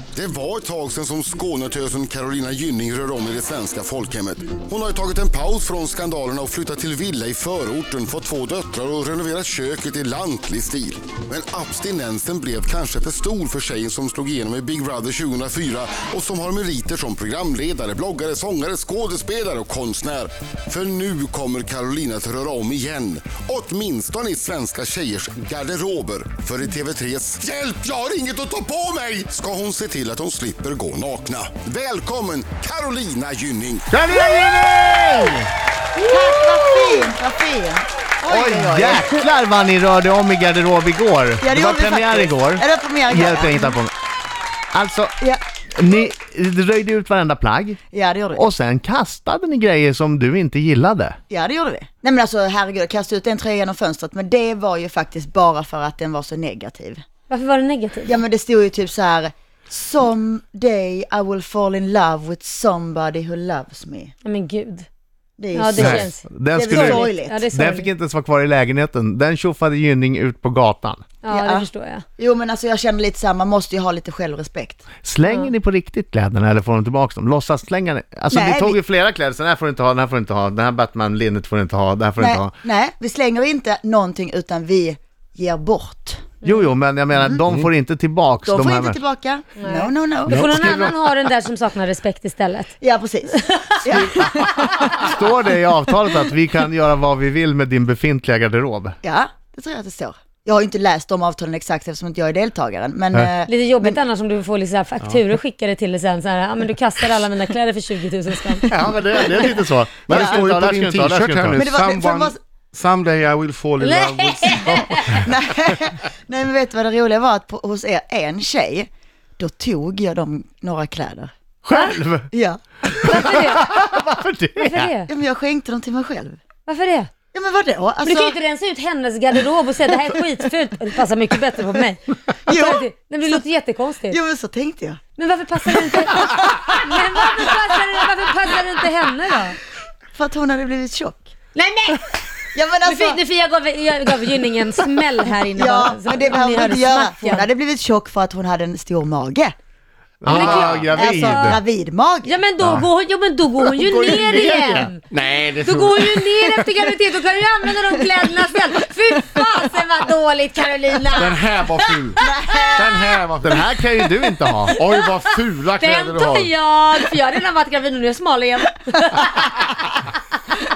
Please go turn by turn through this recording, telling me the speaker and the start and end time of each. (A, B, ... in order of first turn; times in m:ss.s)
0:00.2-0:33.9 A
0:33.9-0:35.5 B
0:36.0-0:39.1 C
0:36.2-0:37.1 B
0:38.3-0:43.9 B
0:41.4-0:43.8 C
0:44.7-0:45.2 B
0:45.8-0:47.8 B
0:47.9-0:48.5 C
0:48.4-0:51.2 B
0:51.3-0:57.0 C
0:57.3-0:58.2 D
0:58.0-1:04.1 C
1:04.2-1:04.9 D
1:05.4-1:07.5 C
1:05.6-1:07.9 D
1:05.8-1:11.0 B
1:11.2-1:12.0 D
1:11.3-1:14.8 C
1:15.0-1:22.5 B
1:18.3-1:18.8 C
1:22.2-1:26.3 C
1:26.4-1:29.0 B
1:27.2-1:27.4 C
1:28.4-1:30.6 C
1:29.6-1:32.8 D
1:30.3-1:30.9 E
1:32.8-1:35.1 C
1:33.3-1:34.0 D
1:34.8-1:39.0 B
1:39.0-1:44.0 C
1:43.5-1:48.7 D
1:48.7-1:51.6 B
1:50.1-1:50.4 C
1:50.1-1:50.4 A
1:50.1-1:55.1 E
1:51.6-1:52.4 C
1:53.8-1:55.2 D
1:55.0-2:01.3 C
2:01.6-2:02.3 B
2:01.7-2:02.0 D
2:02.3-2:02.6 C
2:02.9-2:04.9 B
2:03.1-2:03.7 D
2:04.6-2:05.1 D
2:05.1-2:06.4 C
2:06.7-2:07.1 D
2:07.3-2:08.3 C
2:08.0-2:14.2 D
2:12.5-2:12.8 C
2:14.1-2:15.0 C
2:15.2-2:19.6 D
2:15.7-2:17.5 C
2:20.1-2:21.3 C
2:21.5-2:22.3 D
2:22.5-2:23.2 C
2:22.8-2:27.5 D
2:25.5-2:29.5 C
2:30.2-2:31.6 B
2:30.2-2:31.6 D
2:30.3-2:32.4 C
2:32.2-2:35.0 D
2:33.7-2:34.9 B
2:35.1-2:36.2 E
2:35.6-2:41.4 D
2:41.2-2:42.2 E
2:41.9-2:42.3 D
2:42.2-2:43.2 C
2:42.7-2:43.5 E
2:43.4-2:44.7 B
2:44.7-2:45.2 D
2:44.7-2:46.5 E
2:45.8-2:49.7 D